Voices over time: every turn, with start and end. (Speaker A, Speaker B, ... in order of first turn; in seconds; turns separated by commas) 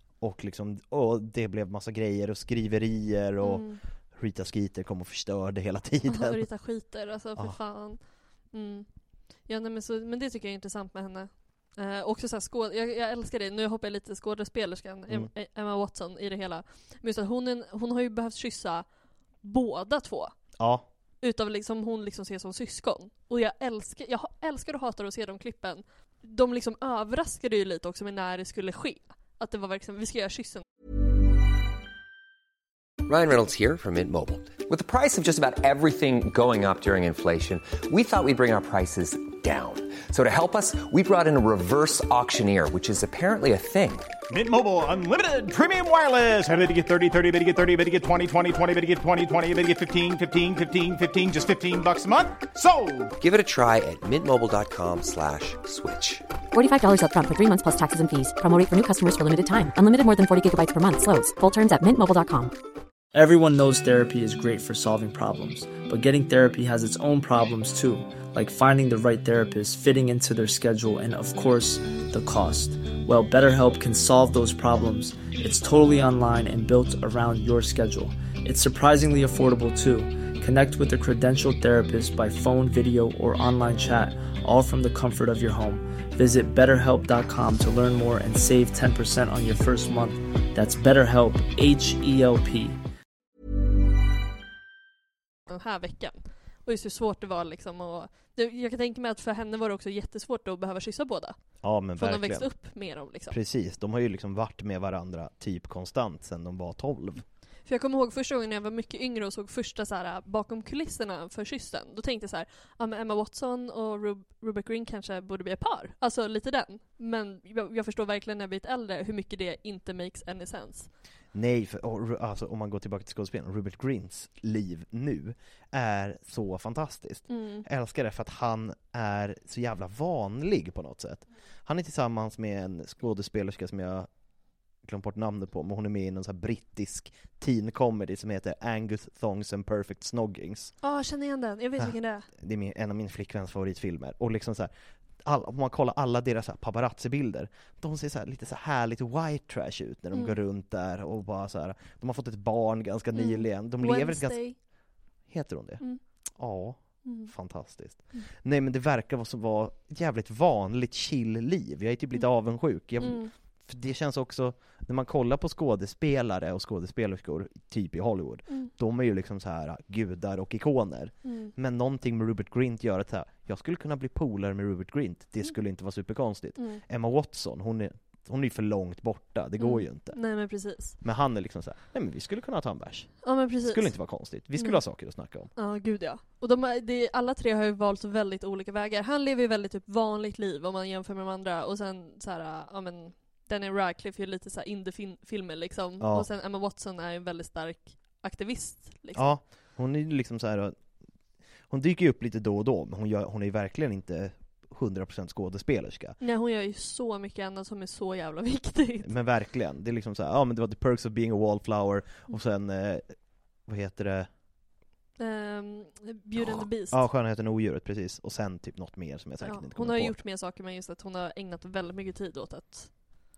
Speaker A: 0.2-6.5, Speaker B: 3.4-3.8, Speaker B: 6.1-8.0, Speaker B: 8.5-8.9, Speaker B: 9.5-18.9, Speaker B: 19.4-20.4, Speaker A: 20.6-20.9, Speaker B: 21.2-30.6, Speaker C: 33.1-44.1, Speaker D: 44.3-53.1, Speaker C: 53.2-56.2, Speaker E: 56.5-62.5, Speaker F: 63.1-92.8, Speaker B: 95.5-101.4, Speaker A: 101.6-102.5, Speaker B: 102.0-103.4, Speaker A: 103.3-107.2, Speaker B: 107.7-120.9, Speaker A: 121.3-134.1, Speaker B: 127.3-127.7, Speaker A: 134.8-140.7, Speaker B: 140.8-142.3, Speaker A: 141.8-144.7, Speaker A: 145.2-154.4, Speaker B: 150.1-150.4, Speaker B: 153.2-154.6, Speaker A: 155.3-155.8, Speaker A: 156.4-180.2, Speaker B: 157.1-157.3, Speaker B: 163.0-163.3, Speaker B: 171.2-171.5, Speaker B: 179.6-181.0, Speaker A: 181.0-185.5, Speaker B: 183.2-183.9, Speaker B: 184.6-184.8, Speaker B: 185.6-199.3, Speaker A: 196.0-196.3, Speaker A: 199.2-200.8, Speaker A: 201.7-206.2, Speaker B: 206.2-209.1, Speaker A: 209.0-213.2, Speaker A: 213.7-214.3, Speaker B: 215.2-217.0, Speaker A: 216.4-220.2, Speaker B: 219.4-222.9